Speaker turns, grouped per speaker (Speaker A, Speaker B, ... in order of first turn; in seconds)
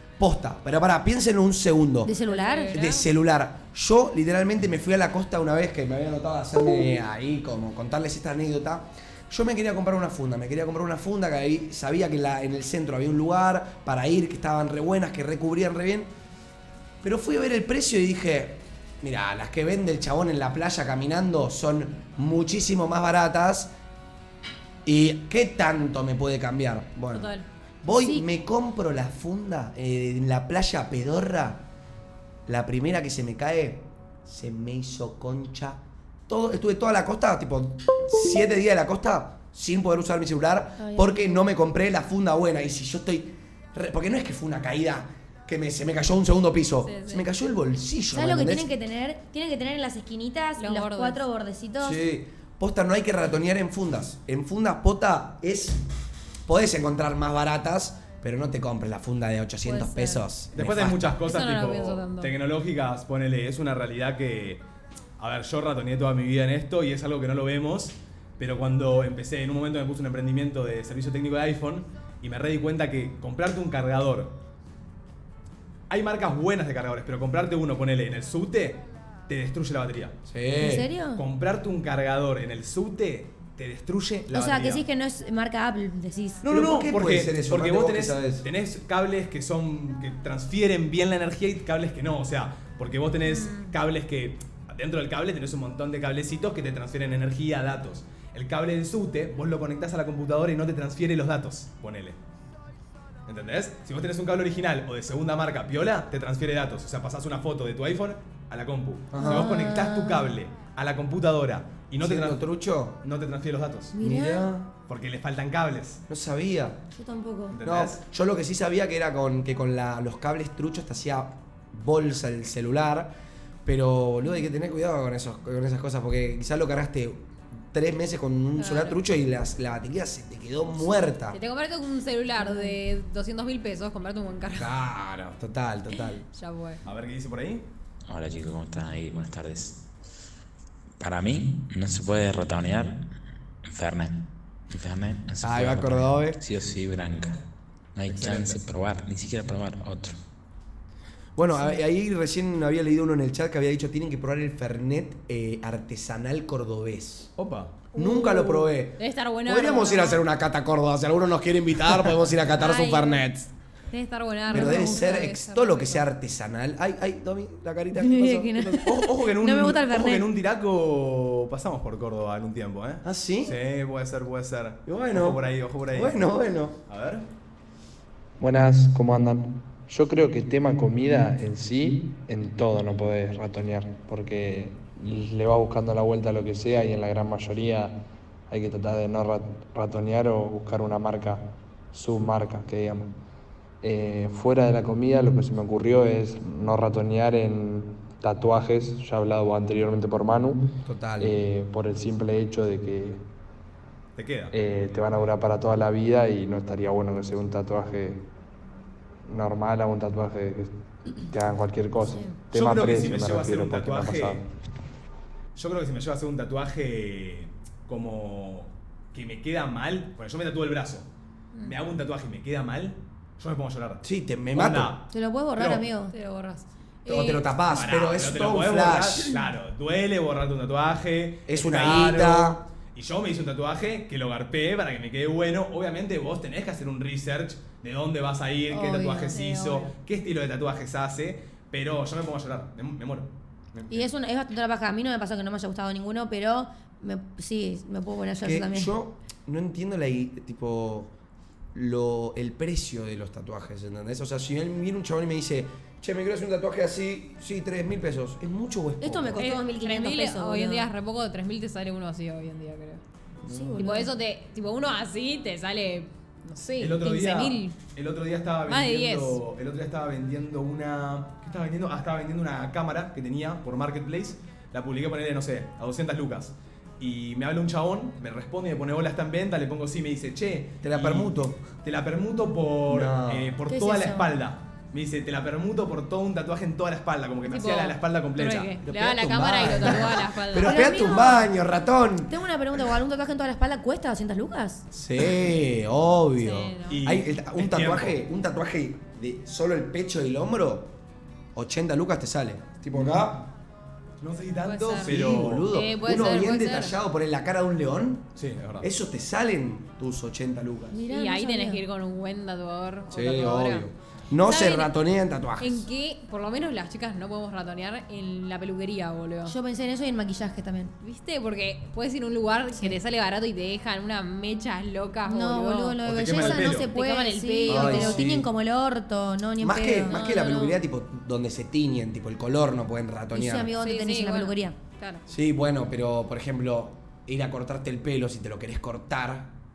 Speaker A: 0.2-2.1, 2.7-16.1, 17.0-23.7, 24.9-27.3, 27.8-31.6, 32.5-48.7, 51.8-55.8, 56.5-61.2, 80.3-80.9, 86.5-88.5, 109.1-109.5, 112.0-113.0, 114.0-114.7, 116.1-116.8, 117.6-123.1, 123.7-131.4, 134.5-136.2, 145.4-146.4, 151.4-157.3, 157.9-163.5, 164.5-168.6, 173.0-173.6, 174.9-176.8, 200.8-201.3, 224.0-224.9, 227.1-229.3, 231.5-232.6, 248.4-251.1, 251.7-259.5, 263.5-264.0, 280.8-281.6, 282.9-283.6, 288.8-292.4, 294.9-300.9, 301.6-303.5, 305.0-308.3, 308.8-311.0, 313.1-315.9, 327.7-328.5, 329.6-333.7, 335.3-339.5
Speaker B: 2.0-2.9, 27.9-28.2, 40.8-41.4, 48.1-52.0, 80.6-81.2, 84.3-86.5, 109.2-110.3, 114.0-114.5, 116.9-117.6, 132.4-132.8, 151.5-151.8, 162.6-163.1, 164.5-165.3, 167.9-170.3, 225.1-226.1, 238.7-239.4, 243.9-248.9, 259.0-260.9, 263.5-264.1, 283.7-284.3, 290.6-291.5, 292.3-294.9, 310.9-311.8, 319.5-320.9, 325.3-330.8, 333.3-334.8
Speaker C: 2.3-3.1, 27.1-27.5, 46.8-47.3, 50.6-51.2, 59.7-60.2, 61.2-62.3, 93.2-93.7, 128.6-129.0, 131.3-134.7, 136.3-136.8, 158.0-160.2, 162.6-163.1, 163.9-166.1, 226.1-227.4, 239.3-239.9, 259.4-263.0, 263.8-267.8, 268.7-269.4, 287.4-291.0, 296.4-297.0, 304.6-307.0, 311.1-313.9, 314.5-314.9, 315.6-319.6, 321.0-328.3, 333.8-335.2
Speaker D: 60.5-64.6, 65.2-74.3, 75.9-80.2, 81.2-84.8, 86.4-102.2, 103.3-112.4, 113.0-114.0, 114.9-116.0, 117.5-118.0, 136.8-137.7, 148.1-148.6, 157.4-157.8, 168.6-176.2, 176.9-177.3, 204.2-204.5, 212.5-214.4, 215.6-221.1, 221.6-225.1, 225.6-225.8, 227.7-244.1, 266.8-288.7, 296.9-298.2, 304.2-305.7, 308.4-308.9, 326.0-326.9
Speaker E: 138.1-139.8, 141.0-143.0, 143.7-147.4, 148.0-150.2
Speaker F: 178.4-188.0, 188.5-193.1, 193.8-200.7, 201.2-203.2, 204.5-208.2, 209.3-210.7, 211.3-214.4